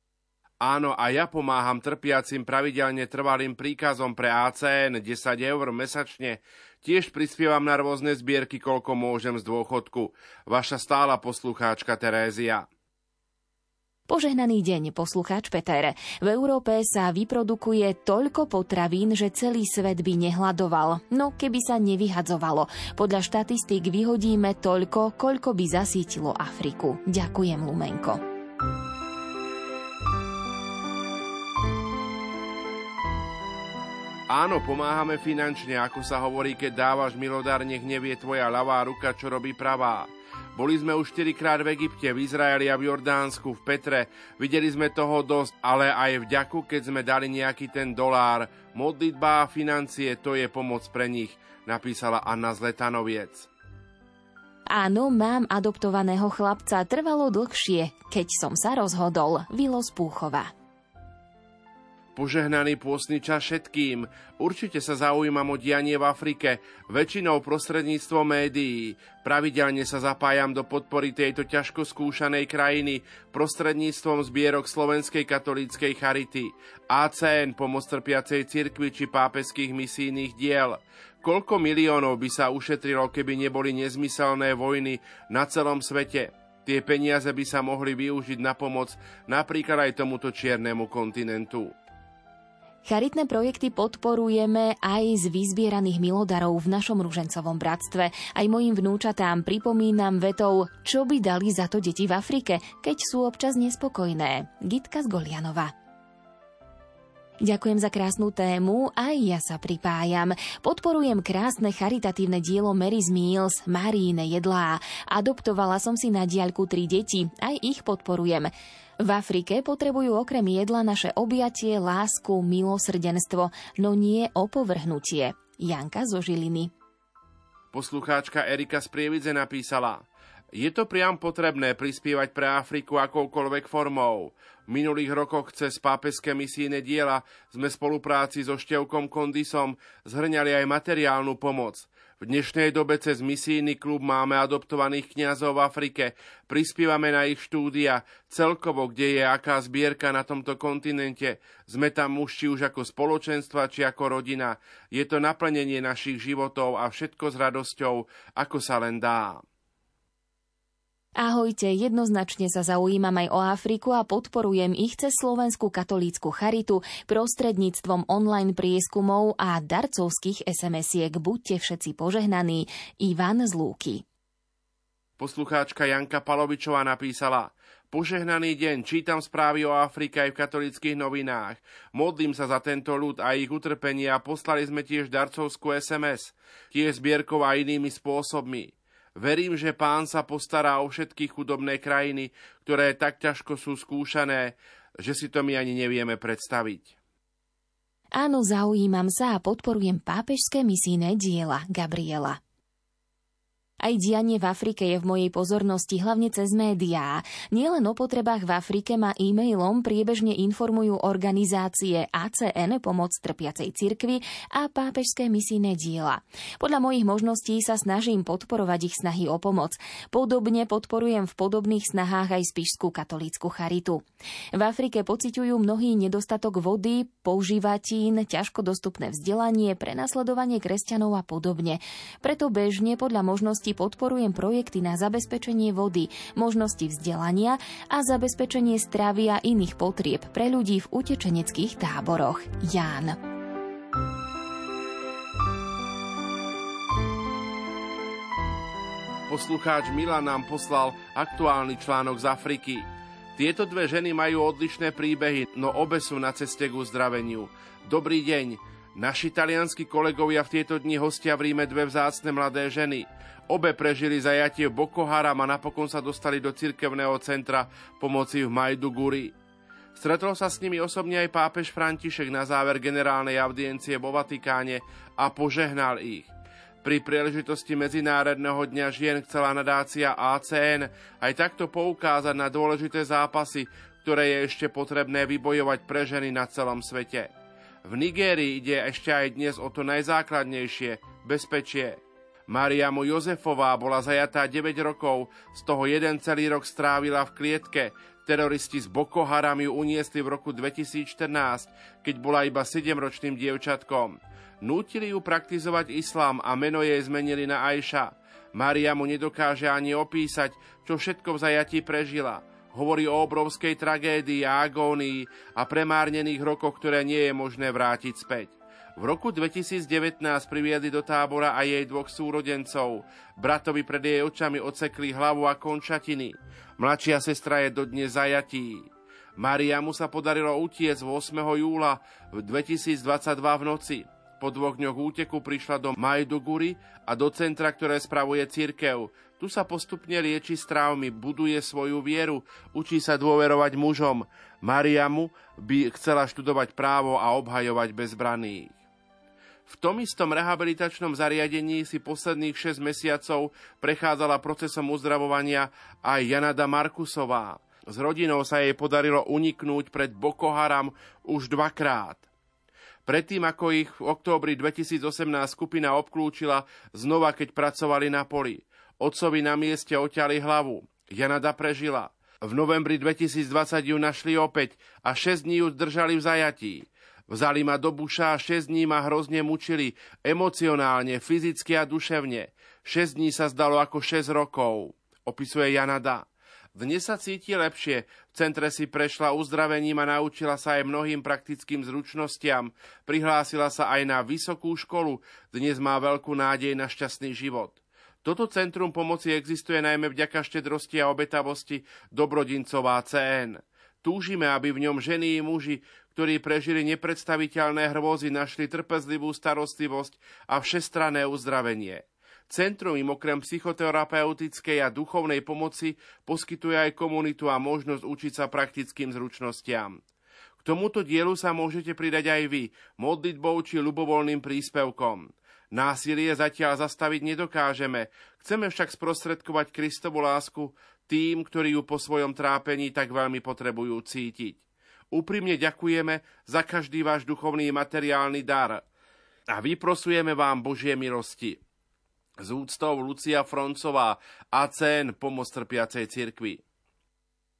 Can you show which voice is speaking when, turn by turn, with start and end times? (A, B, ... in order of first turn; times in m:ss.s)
0:00.6-0:12.6 A
0:14.1-0:28.2 B
0:34.3-0:53.5 A
0:54.7-1:00.5 B
1:02.2-1:31.7 A
1:32.8-1:45.7 B
1:47.4-1:58.5 B
1:59.0-2:06.7 B
2:07.7-2:10.0 A
2:10.5-2:39.4 A
2:41.2-2:54.0 B
2:55.2-3:16.9 A
3:18.1-3:22.4 B
3:23.8-3:44.0 B
3:44.5-4:03.2 B
4:09.3-4:12.8 A
4:13.4-4:29.3 A
4:30.0-4:36.2 A
4:36.8-4:47.2 A
4:47.9-4:51.9 A
4:52.5-5:04.0 A
5:04.6-5:08.0 A
5:08.6-5:18.5 A
5:19.0-5:22.8 A
5:23.4-5:26.2 A
5:26.8-5:28.4 A
5:29.4-5:31.8 A
5:32.5-5:34.0 A
5:34.5-5:35.7 C
5:34.5-5:42.2 A
5:36.3-5:36.6 C
5:37.2-5:38.3 C
5:39.2-5:41.4 C
5:42.0-5:42.4 C
5:42.8-5:43.6 A
5:43.0-5:44.1 C
5:44.7-5:45.3 C
5:44.8-5:45.1 A
5:45.7-5:48.4 A
5:46.0-5:47.9 C
5:49.8-5:50.5 A
5:49.8-5:55.6 C
5:51.2-5:53.3 A
5:54.4-5:55.2 A
5:56.1-5:57.4 C
5:56.4-5:57.3 A
5:58.0-6:02.1 C
5:59.3-6:00.7 A
6:01.5-6:01.9 A
6:03.2-6:26.2 C
6:04.0-6:04.4 A
6:12.8-6:14.4 A
6:26.8-6:37.7 C
6:38.2-7:00.0 C
7:00.7-7:14.5 C
7:15.1-7:18.8 C
7:19.5-7:21.6 C
7:22.4-7:26.6 C